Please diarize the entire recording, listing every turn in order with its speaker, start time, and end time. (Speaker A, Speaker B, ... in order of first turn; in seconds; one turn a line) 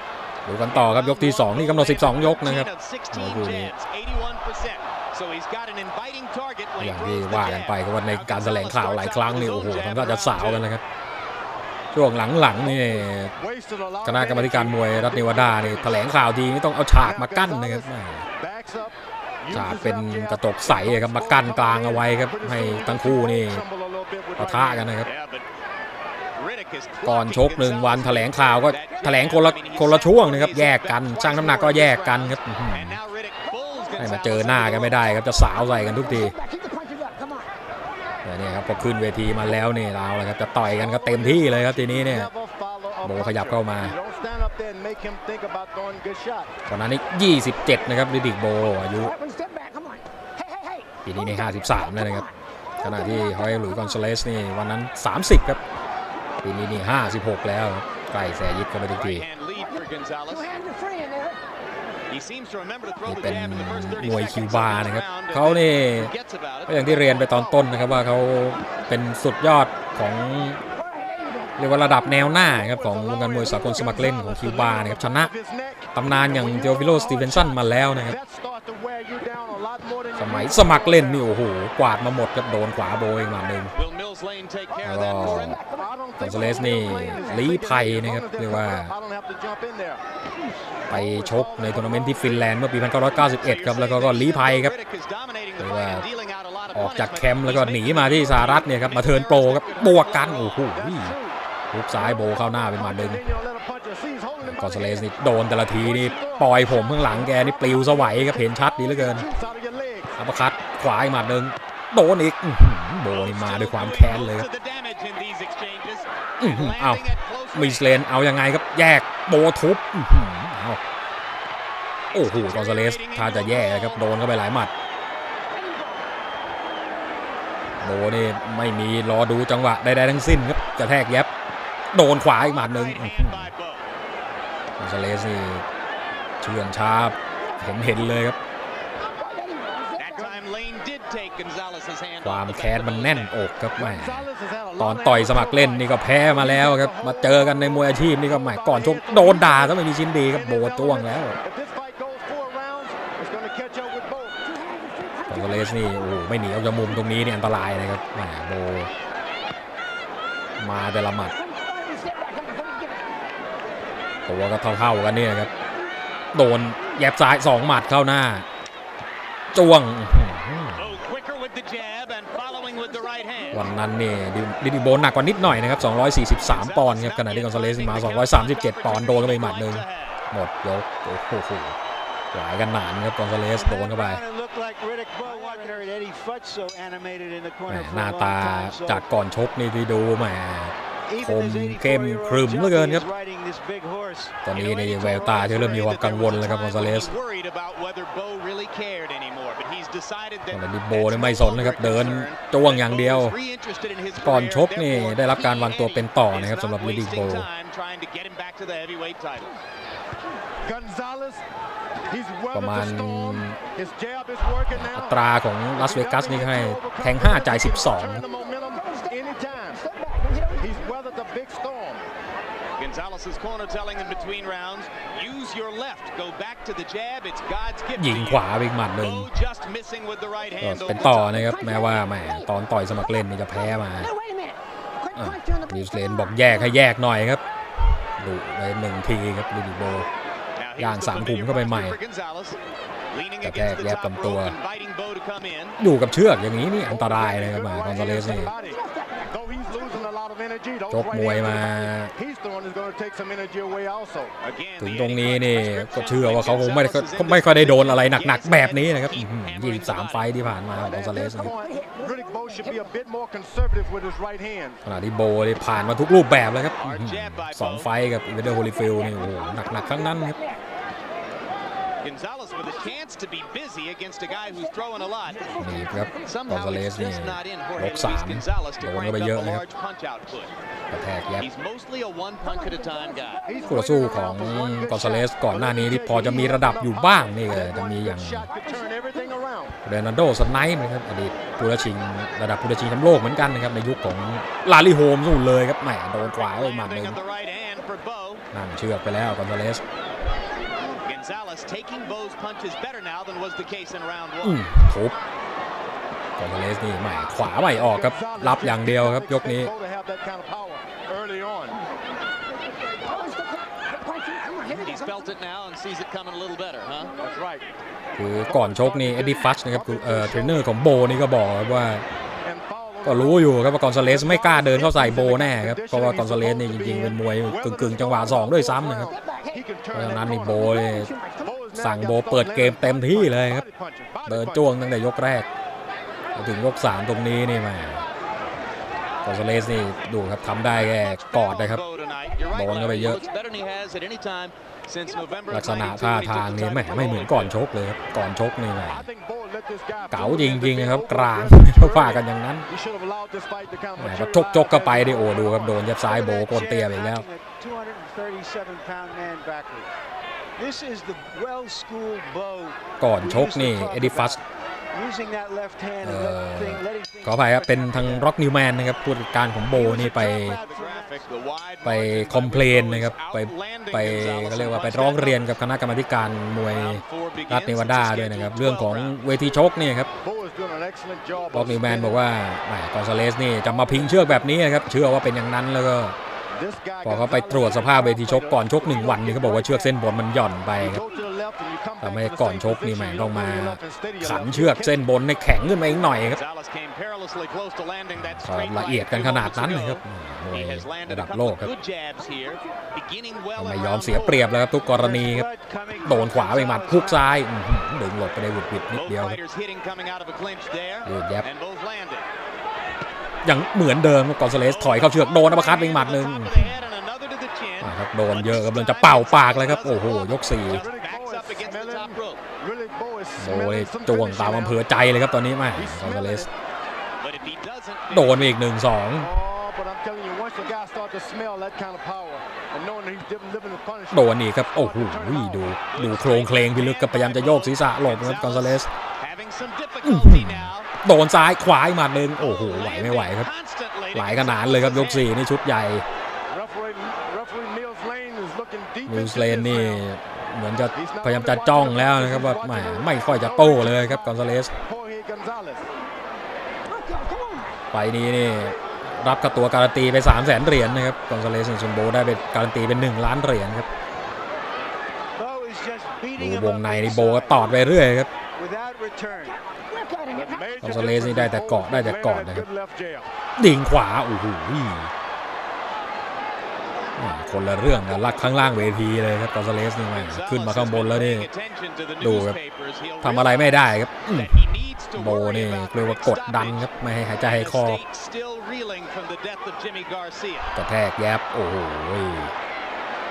Speaker A: 0.5-3.7
Speaker B: 0.7-10.7
Speaker A: 6.8-10.8
Speaker A: 11.9-13.3
Speaker C: 12.6-16.2
Speaker A: 14.1-18.3
Speaker C: 16.9-24.9
Speaker A: 19.5-23.6
Speaker A: 24.4-25.1
Speaker B: 25.1-25.5
Speaker B: 26.4-35.0
Speaker A: 27.0-33.0
Speaker D: 33.6-34.2
Speaker A: 34.0-36.4
Speaker D: 35.4-37.5
Speaker A: 38.2-42.3
Speaker C: 40.8-46.5
Speaker A: 43.0-44.0
Speaker A: 46.7-49.1
Speaker D: 49.0-54.0
Speaker A: 51.0-52.3
Speaker A: 52.8-55.6
Speaker A: 56.4-59.3
Speaker B: 58.9-60.5
Speaker D: 59.5-61.4
Speaker B: 62.1-67.9
Speaker A: 63.1-66.1
Speaker A: 66.7-70.6
Speaker D: 70.8-71.6
Speaker A: 71.6-75.3
Speaker C: 72.4-81.3
Speaker D: 73.5-73.9
Speaker A: 76.0-78.2
Speaker A: 80.2-83.7
Speaker B: 83.7-85.5
Speaker A: 84.8-85.6
Speaker D: 85.0-87.3
Speaker C: 85.6-90.0
Speaker A: 86.2-88.9
Speaker C: 90.9-92.8
Speaker A: 90.9-94.7
Speaker B: 93.0-100.6
Speaker A: 95.6-96.1
Speaker A: 96.7-101.2
Speaker C: 100.7-101.4
Speaker A: 101.7-103.2
Speaker C: 101.9-105.1
Speaker A: 104.4-109.3
Speaker C: 105.6-110.1
Speaker A: 110.2-114.5
Speaker B: 113.1-118.0
Speaker A: 116.4-120.8
Speaker B: 122.1-124.1
Speaker A: 122.1-124.7
Speaker D: 125.5-126.0
Speaker A: 127.8-131.3
Speaker A: 131.9-133.5
Speaker B: 132.4-133.9
Speaker A: 134.8-135.7
Speaker A: 136.4-138.4
Speaker D: 137.4-138.1
Speaker D: 139.1-140.3
Speaker B: 140.0-143.3
Speaker C: 140.1-140.5
Speaker A: 142.2-151.4
Speaker C: 143.8-154.4
Speaker D: 154.5-156.2
Speaker A: 155.3-158.9
Speaker A: 160.6-161.3
Speaker D: 161.3-163.2
Speaker A: 164.3-165.5
Speaker A: 166.3-168.5
Speaker A: 169.5-171.0
Speaker B: 170.8-173.7
Speaker A: 173.5-181.8
Speaker B: 176.4-180.2
Speaker A: 182.3-184.2
Speaker E: 183.5-189.1
Speaker A: 187.7-193.1
Speaker E: 191.1-194.4
Speaker A: 194.4-197.1
Speaker B: 194.5-209.5
Speaker A: 200.5-203.4
Speaker A: 204.2-207.5
Speaker C: 210.6-211.4
Speaker C: 212.1-215.2
Speaker A: 212.5-213.6
Speaker A: 214.7-218.2
Speaker C: 215.7-219.8
Speaker D: 218.2-221.0
Speaker C: 220.6-222.1
Speaker B: 222.8-228.4
Speaker A: 228.0-229.3
Speaker B: 229.0-231.3
Speaker A: 230.6-234.1
Speaker D: 231.3-232.5
Speaker D: 233.8-236.7
Speaker A: 235.2-237.4
Speaker A: 238.2-240.1
Speaker B: 240.6-242.6
Speaker A: 240.8-242.0
Speaker B: 243.1-245.8
Speaker A: 243.4-244.6
Speaker A: 245.8-248.5
Speaker C: 246.8-254.3
Speaker D: 248.2-250.1
Speaker A: 250.9-252.1
Speaker B: 254.4-260.3
Speaker A: 254.8-261.5
Speaker C: 260.8-264.8
Speaker D: 261.3-262.9
Speaker A: 264.9-270.4
Speaker B: 266.8-267.9
Speaker D: 268.5-270.6
Speaker B: 272.0-275.5
Speaker D: 274.4-276.4
Speaker A: 275.6-279.6
Speaker B: 276.2-280.5
Speaker A: 280.9-281.5
Speaker B: 281.4-283.4
Speaker D: 282.4-283.7
Speaker C: 283.5-289.8
Speaker A: 283.7-288.5
Speaker D: 288.5-289.4
Speaker A: 289.8-297.2
Speaker B: 296.2-298.4
Speaker A: 298.5-299.8
Speaker B: 301.0-304.6
Speaker A: 304.4-305.2
Speaker A: 306.4-309.7
Speaker C: 307.7-311.8
Speaker D: 312.8-315.3
Speaker B: 314.7-317.1
Speaker C: 317.2-317.7
Speaker A: 318.2-322.1
Speaker C: 318.4-320.7
Speaker C: 322.4-334.7
Speaker A: 323.0-329.1
Speaker D: 329.1-331.7
Speaker A: 329.9-331.1
Speaker A: 331.7-333.7
Speaker A: 334.3-335.5
Speaker A: 336.4-338.1
Speaker A: 339.2-341.8
Speaker B: 340.9-347.6
Speaker A: 342.5-343.2
Speaker A: 345.5-349.1
Speaker C: 348.9-355.8
Speaker A: 350.1-352.7
Speaker A: 354.0-357.2
Speaker E: 356.0-359.9
Speaker E: 360.6-368.3
Speaker A: 363.0-364.4
Speaker A: 366.0-370.6
Speaker E: 369.7-371.2
Speaker B: 369.8-375.5
Speaker A: 371.8-380.1
Speaker B: 376.8-379.5
Speaker C: 380.2-382.2
Speaker A: 381.5-386.1
Speaker C: 383.6-384.4
Speaker C: 386.6-390.0
Speaker A: 387.0-391.0
Speaker C: 390.8-395.0
Speaker A: 392.0-396.4
Speaker B: 396.2-404.5
Speaker A: 398.2-401.7
Speaker A: 403.6-405.5
Speaker E: 404.9-407.3
Speaker A: 406.1-409.4
Speaker B: 408.9-412.3
Speaker A: 411.1-411.5
Speaker A: 413.4-416.9
Speaker B: 414.5-422.4
Speaker A: 417.8-420.9
Speaker C: 420.7-424.9
Speaker A: 423.4-426.5
Speaker C: 425.7-426.5
Speaker B: 427.2-428.6
Speaker A: 428.1-429.3
Speaker C: 429.2-435.8
Speaker A: 434.1-438.9
Speaker B: 435.9-440.9
Speaker A: 440.0-443.5
Speaker B: 442.4-445.3
Speaker A: 444.1-446.1
Speaker C: 446.5-450.0
Speaker A: 449.1-454.7
Speaker C: 450.9-455.9
Speaker D: 456.9-457.8
Speaker A: 457.9-463.9
Speaker E: 465.4-468.0
Speaker A: 466.4-468.3
Speaker E: 468.6-469.6
Speaker D: 469.4-470.9
Speaker C: 470.3-473.3
Speaker A: 470.8-472.7
Speaker A: 473.6-475.1
Speaker A: 477.2-481.5
Speaker B: 480.1-490.8
Speaker A: 482.2-482.6
Speaker A: 483.2-488.0
Speaker A: 490.8-492.5